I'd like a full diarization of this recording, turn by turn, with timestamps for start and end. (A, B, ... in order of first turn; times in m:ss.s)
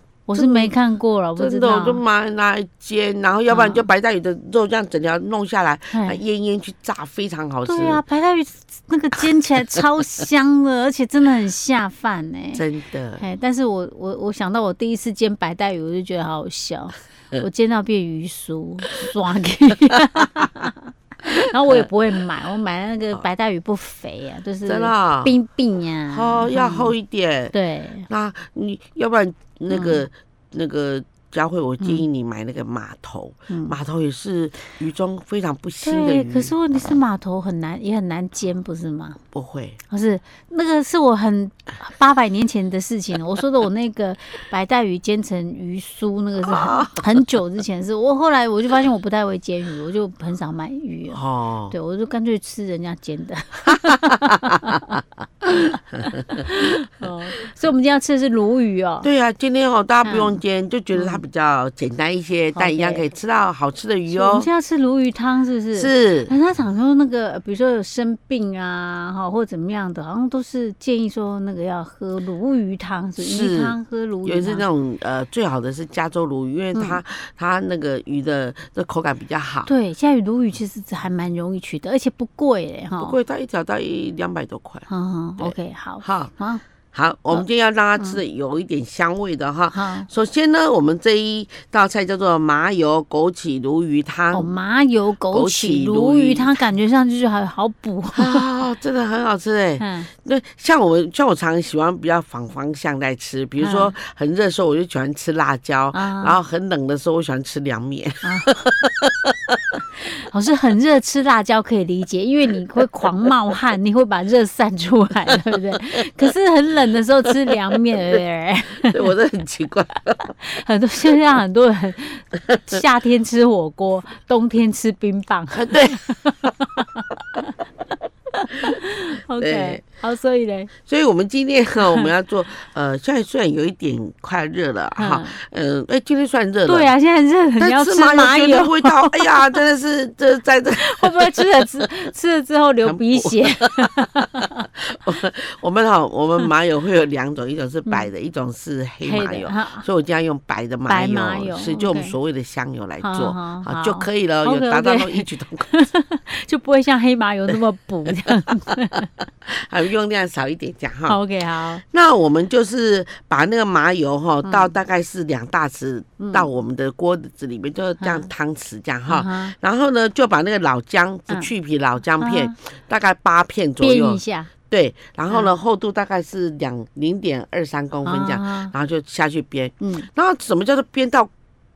0:00.3-0:02.0 A
0:00.3-0:00.7 B
0:01.4-0:08.0 B
0:03.5-0:03.9 A
0:05.9-0:06.2 A
0:07.7-0:12.6 A
0:12.5-0:13.2 B
0:13.2-0:26.9 A
0:24.6-0:25.4 B
0:26.1-0:27.5 B
0:27.5-0:28.1 A
0:28.1-0:36.5 B
0:29.7-0:30.0 A
0:33.5-0:33.8 A
0:35.8-0:39.2 A
0:39.3-0:39.8 B
0:39.9-0:54.8 A
0:46.5-0:47.0 B
0:51.1-0:51.7 B
0:54.1-0:54.6 B
0:55.4-0:59.1 A
0:59.0-1:04.5 B
1:00.0-1:00.4 A
1:00.9-1:01.2 A
1:02.6-1:03.0 A
1:04.1-1:14.6 A
1:05.7-1:06.3 B
1:13.2-1:19.7 B
1:16.7-1:17.0 A
1:19.7-1:23.2 A
1:23.0-1:24.9 B
1:24.9-1:26.6 A
1:25.4-1:26.3 B
1:26.9-1:34.5 B
1:27.3-1:28.2 A
1:29.7-1:30.1 A
1:34.3-1:38.4 A
1:35.3-1:36.6 B
1:38.1-1:49.5 B
1:39.8-1:40.1 A
1:43.6-1:43.9 A
1:45.9-1:46.4 A
1:48.2-1:48.6 A
1:50.2-1:59.1 A
1:58.9-2:00.3 B
2:00.4-2:07.0 A
2:05.5-2:06.0 B
2:08.6-2:10.7 A
2:09.4-2:09.8 B
2:10.8-2:16.9 B
2:15.0-2:15.4 A
2:16.7-2:19.6 A
2:17.6-2:21.9 B
2:20.8-2:24.7 A
2:22.8-2:23.8 B
2:24.8-2:35.7 B
2:29.0-2:29.9 A
2:30.9-2:32.2 A
2:33.0-2:39.1 A
2:39.5-2:41.2 B
2:41.1-2:41.8 A
2:41.8-3:01.3 B
2:44.4-2:44.7 A
2:46.2-2:46.5 A
2:48.0-2:48.3 A
2:49.1-2:49.6 A
2:52.2-2:52.6 A
2:53.8-2:54.5 A
2:55.3-2:55.6 A
2:58.0-2:58.7 A
2:59.8-3:00.1 A